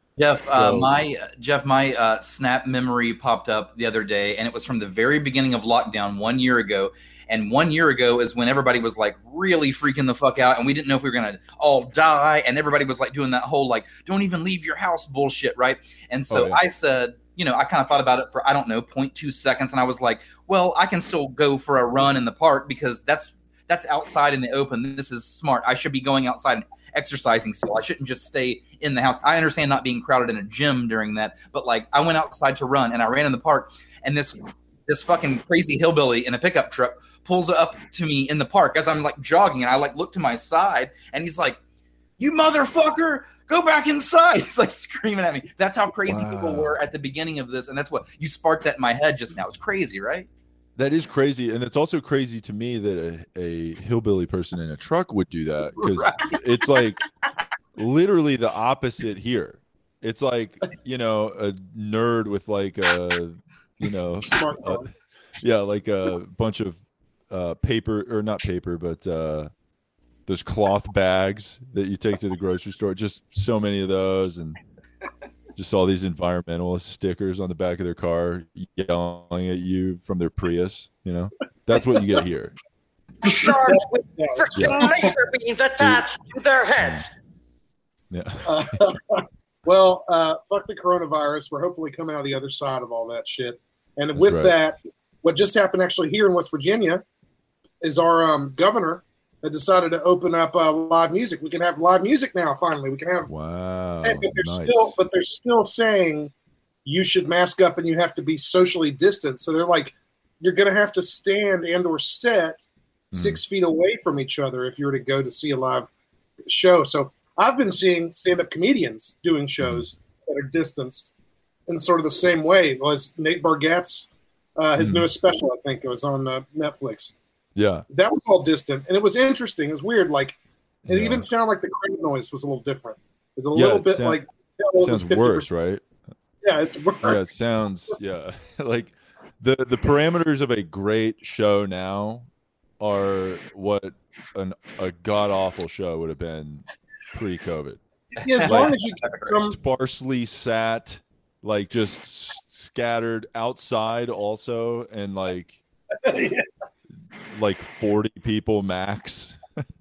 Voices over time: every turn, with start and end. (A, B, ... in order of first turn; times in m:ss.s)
0:00.2-0:41.6 A
0:00.5-0:01.0 B
0:16.3-0:16.6 B
0:42.2-0:50.3 A
0:46.0-0:46.7 B
0:50.8-0:57.0 B
0:55.8-0:56.3 A
0:57.8-1:04.8 B
1:04.2-1:04.9 C
1:05.4-1:09.5 B
1:10.3-1:14.6 B
1:15.5-1:22.5 B
1:23.2-1:27.1 D
1:23.2-1:25.1 C
1:24.5-1:24.9 B
1:25.8-1:26.1 B
1:26.8-1:27.1 B
1:28.1-1:29.0 B
1:28.4-1:37.0 C
1:34.1-1:34.6 B
1:37.8-1:43.3 C
1:43.3-1:45.0 B
1:44.0-1:46.3 C
1:46.8-1:55.9 C
1:53.1-1:53.4 B
1:56.5-2:01.1 C
2:01.7-2:07.1 C
2:04.8-2:05.1 B
2:07.5-2:07.8 B
2:07.9-2:15.5 C
2:10.8-2:11.2 B
2:13.5-2:14.2 B
2:14.8-2:15.8 B
2:16.4-2:17.3 C
2:17.0-2:22.3 B
2:22.8-2:27.8 B
2:28.1-2:29.6 C
2:28.4-2:29.3 A
2:28.4-2:28.8 B
2:29.3-2:35.6 B
2:36.0-2:36.4 C
2:37.3-2:39.4 B